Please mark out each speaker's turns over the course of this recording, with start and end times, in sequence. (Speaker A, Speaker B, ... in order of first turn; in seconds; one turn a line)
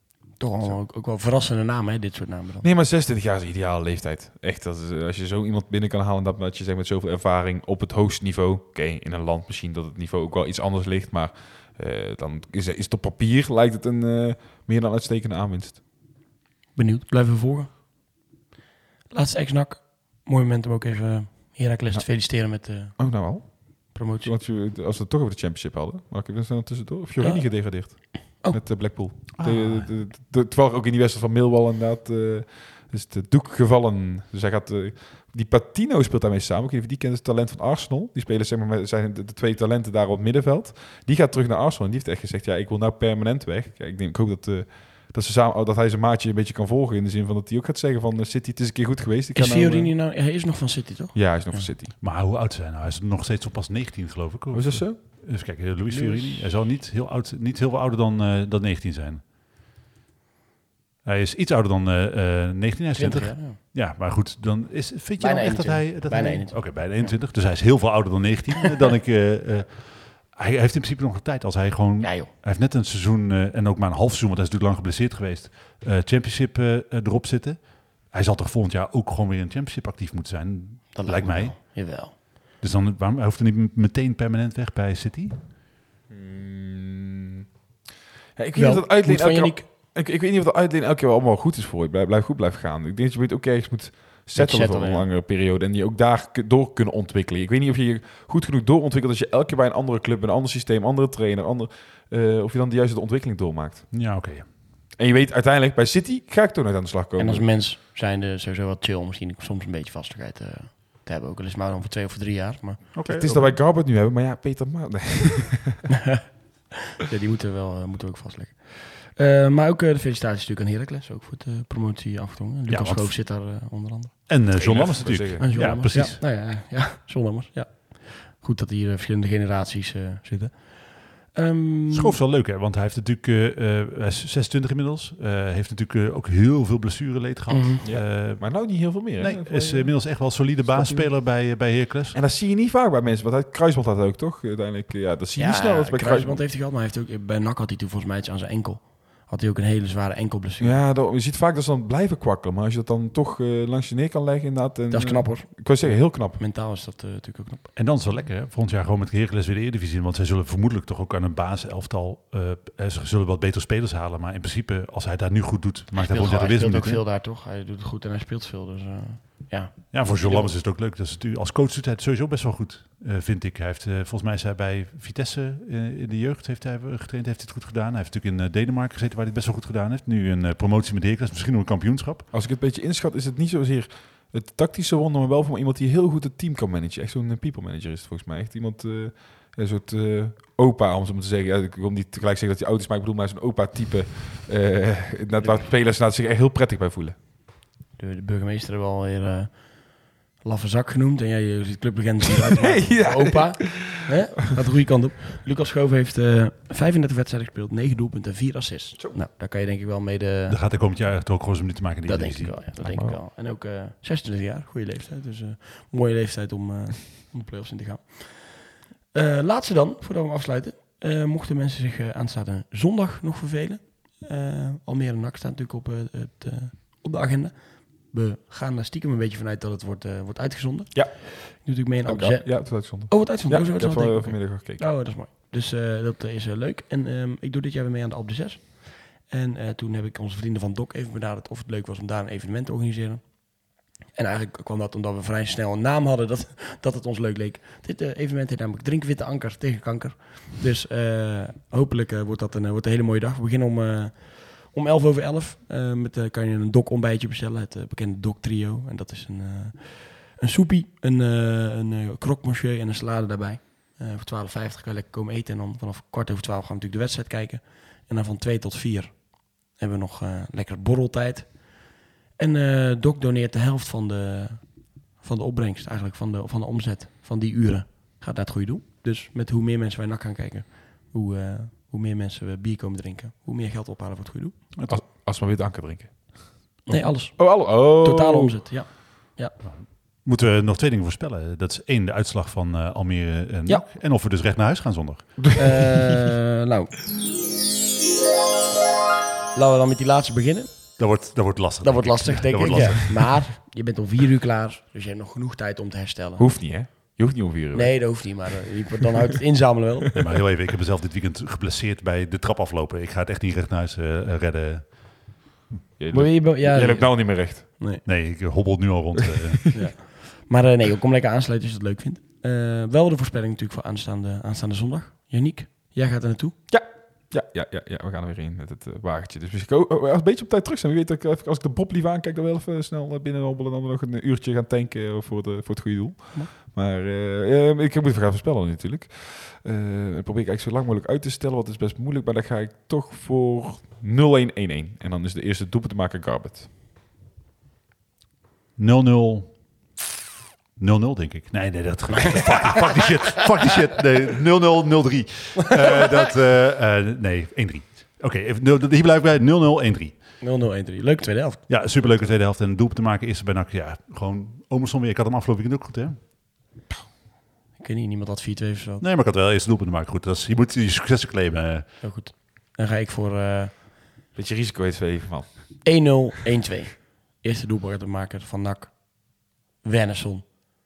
Speaker A: 0.4-2.7
Speaker B: 2.6-15.8
Speaker A: 16.8-17.7
Speaker A: 19.1-23.3
Speaker B: 21.9-50.0
Speaker A: 23.9-24.3
Speaker A: 27.2-28.9
Speaker C: 29.4-29.9
Speaker A: 49.4-51.7
Speaker B: 51.1-51.9
Speaker C: 52.0-59.2
Speaker B: 54.5-55.0
Speaker A: 55.9-56.6
Speaker C: 61.0-81.6
Speaker A: 63.0-63.6
Speaker A: 65.2-67.2
Speaker A: 72.0-72.3
Speaker A: 80.9-82.2
Speaker C: 82.6-85.4
Speaker B: 86.1-87.5
Speaker B: 88.4-103.9
Speaker A: 88.5-89.7
Speaker A: 94.3-95.1
Speaker C: 103.9-104.5
Speaker B: 105.0-107.5
Speaker A: 107.2-112.9
Speaker C: 112.9-113.6
Speaker B: 113.1-115.8
Speaker A: 116.9-124.3
Speaker C: 122.7-123.2
Speaker C: 124.3-126.2
Speaker B: 124.6-125.8
Speaker A: 125.4-132.2
Speaker C: 131.9-142.2
Speaker A: 137.5-137.8
Speaker B: 137.8-146.4
Speaker A: 145.4-150.8
Speaker B: 150.6-156.4
Speaker A: 154.9-157.7
Speaker C: 157.7-167.0
Speaker A: 165.9-170.5
Speaker C: 169.9-182.3
Speaker B: 182.3-197.2
Speaker A: 195.4-195.7
Speaker A: 198.0-210.6
Speaker B: 202.6-204.1
Speaker C: 210.5-212.6
Speaker A: 212.1-284.6
Speaker B: 212.8-213.2
Speaker B: 230.9-234.8
Speaker C: 284.7-285.0
Speaker B: 284.9-288.6
Speaker A: 286.9-289.6
Speaker C: 289.6-295.6
Speaker A: 295.6-296.9
Speaker A: 299.5-307.2
Speaker C: 301.0-303.4
Speaker B: 302.7-302.9
Speaker B: 306.4-308.5
Speaker A: 307.7-310.1
Speaker C: 310.1-315.4
Speaker B: 316.0-317.7
Speaker A: 316.1-318.0
Speaker C: 318.0-319.8
Speaker A: 319.7-326.6
Speaker B: 326.7-346.7
Speaker C: 348.8-349.6
Speaker C: 350.8-360.2
Speaker A: 360.4-362.3
Speaker C: 361.7-366.2
Speaker A: 367.8-369.0
Speaker C: 369.0-372.0
Speaker A: 372.0-373.9
Speaker B: 374.4-376.1
Speaker A: 375.8-380.5